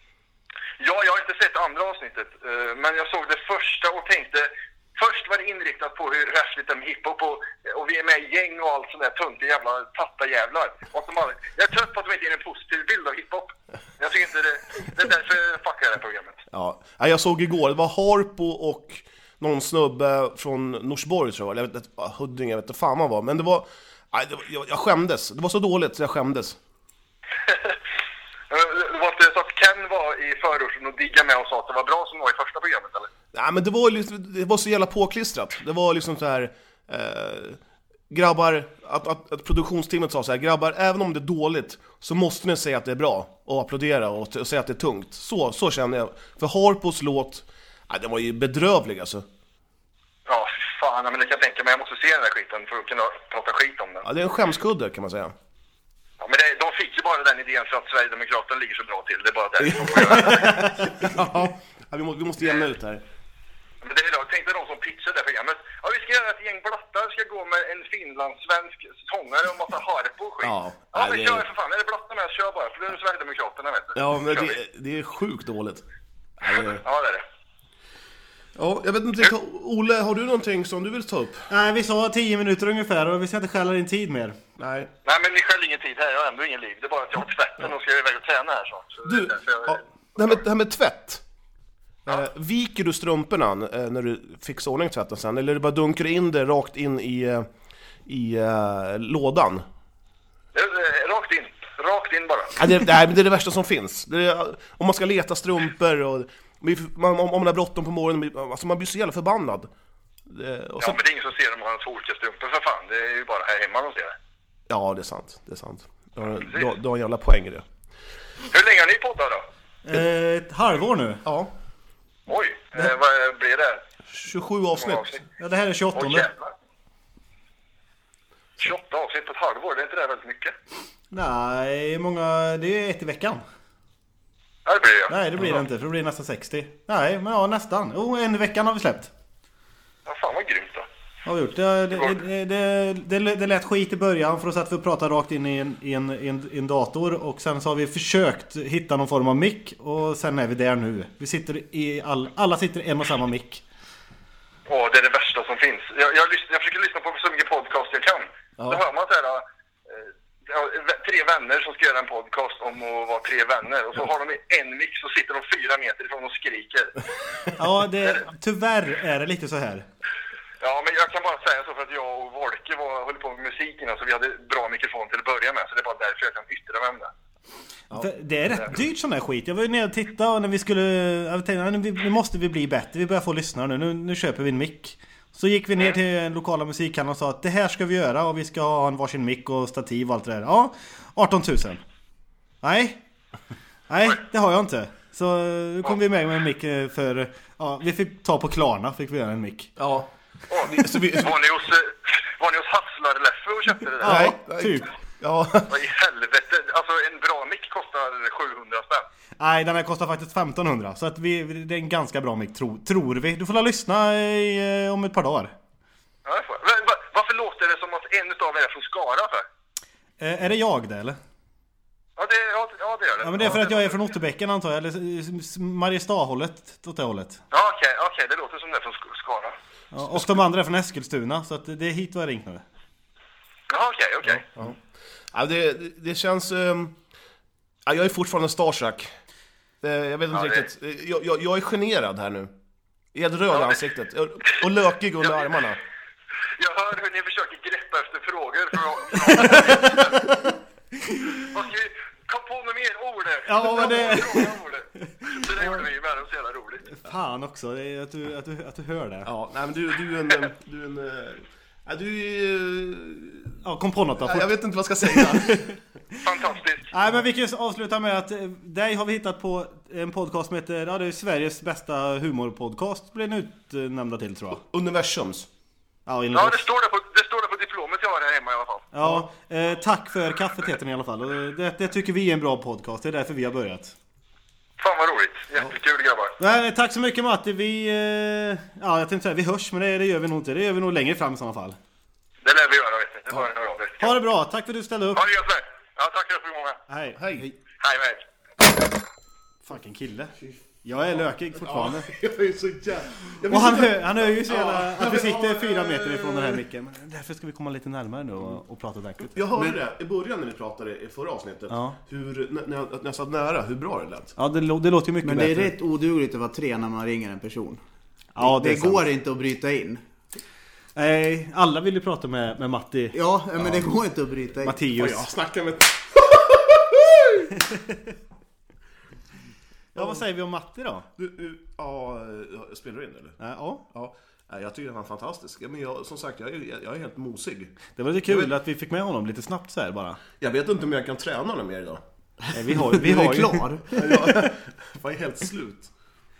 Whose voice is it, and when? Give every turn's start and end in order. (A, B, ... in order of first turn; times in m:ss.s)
0:00.8-0:16.4 A
0:16.5-0:26.6 B
0:27.5-0:27.8 A
0:28.5-0:33.1 A
0:33.3-0:37.6 B
0:38.1-0:49.2 B
0:50.3-0:54.1 A
0:54.0-0:55.3 B
0:56.2-1:00.6 A
0:59.6-1:03.0 B
1:00.4-1:00.8 C
1:03.8-1:14.6 A
1:10.4-1:11.5 B
1:14.0-1:15.8 B
1:16.4-1:16.8 B
1:16.5-1:17.2 A
1:18.6-1:21.5 B
1:21.5-1:24.4 C
1:24.6-1:24.9 B
1:25.0-1:30.3 A
1:29.0-1:31.2 B
1:32.1-1:37.5 B
1:38.1-1:39.6 B
1:40.5-1:42.6 A
1:42.6-1:49.7 B
1:50.3-1:51.0 B
1:50.8-1:54.2 A
1:54.7-1:57.6 B
1:56.3-1:56.7 A
1:58.5-1:59.5 A
1:59.9-2:01.2 C
2:01.2-2:01.5 B
2:02.3-2:03.8 A
2:04.1-2:05.2 B
2:04.8-2:05.2 A
2:05.4-2:06.3 C
2:06.0-2:06.5 A
2:08.6-2:10.5 A
2:11.1-2:13.4 C
2:14.6-2:15.2 A
2:15.1-2:19.1 C
2:20.1-2:20.9 A
2:21.3-2:33.6 C
2:34.7-2:46.9 A
2:38.6-2:38.8 B
2:47.6-2:49.9 C
2:50.6-2:57.1 A
2:57.9-3:11.8 C
3:12.6-3:13.0 C
3:13.9-3:19.7 C
3:19.8-3:21.3 B
3:20.5-3:24.3 A
3:24.0-3:24.9 C
3:24.0-3:25.8 B
3:25.7-3:29.1 A
3:29.4-3:35.5 C
3:36.3-3:39.5 A
3:40.2-3:41.2 C
3:42.2-3:44.1 A
3:43.2-3:47.4 C
3:47.5-3:49.6 A
3:49.9-3:52.6 C
3:53.7-3:54.5 A
3:55.3-3:56.9 B
3:57.9-3:59.1 B
3:59.8-4:02.5 B
4:00.3-4:00.7 A
4:03.1-4:05.8 B
4:03.5-4:03.8 A
4:05.2-4:05.8 A
4:06.6-4:10.3 A
4:09.4-4:10.2 C
4:11.1-4:11.4 C
4:11.5-4:16.9 A
4:13.5-4:14.6 C
4:15.2-4:15.7 C
4:16.9-4:19.3 C
4:19.2-4:23.6 B
4:23.6-4:24.5 C
4:24.2-4:25.7 B
4:25.0-4:25.8 C
4:26.2-4:26.9 A
4:26.9-4:34.6 C
4:34.6-4:35.5 B
4:36.1-4:36.6 C
4:36.3-4:38.9 A
4:38.9-4:44.0 C
4:44.8-4:46.4 A
4:46.4-4:51.8 C
4:52.4-4:54.2 A
4:54.0-4:55.2 C
4:55.1-4:56.8 A
4:56.9-4:57.5 C
4:57.2-4:57.5 B
4:57.8-4:58.2 A
4:59.6-5:02.1 C
5:01.5-5:06.6 B
5:03.5-5:09.4 C
5:09.3-5:14.4 B
5:11.7-5:12.0 C
5:14.4-5:15.7 C
5:15.2-5:17.8 D
5:18.4-5:19.1 C
5:18.4-5:20.0 D
5:21.0-5:23.8 C
5:23.1-5:24.8 D
5:24.6-5:25.3 C
5:25.0-5:27.5 B
5:30.0-5:30.2 B
5:30.0-5:31.1 C
5:31.2-5:33.4 B
5:33.4-5:33.8 C
5:33.9-5:38.5 B
5:38.0-5:40.2 C
5:40.4-5:42.0 B
5:42.5-5:43.7 C
5:42.7-5:44.2 D
5:43.9-5:45.9 B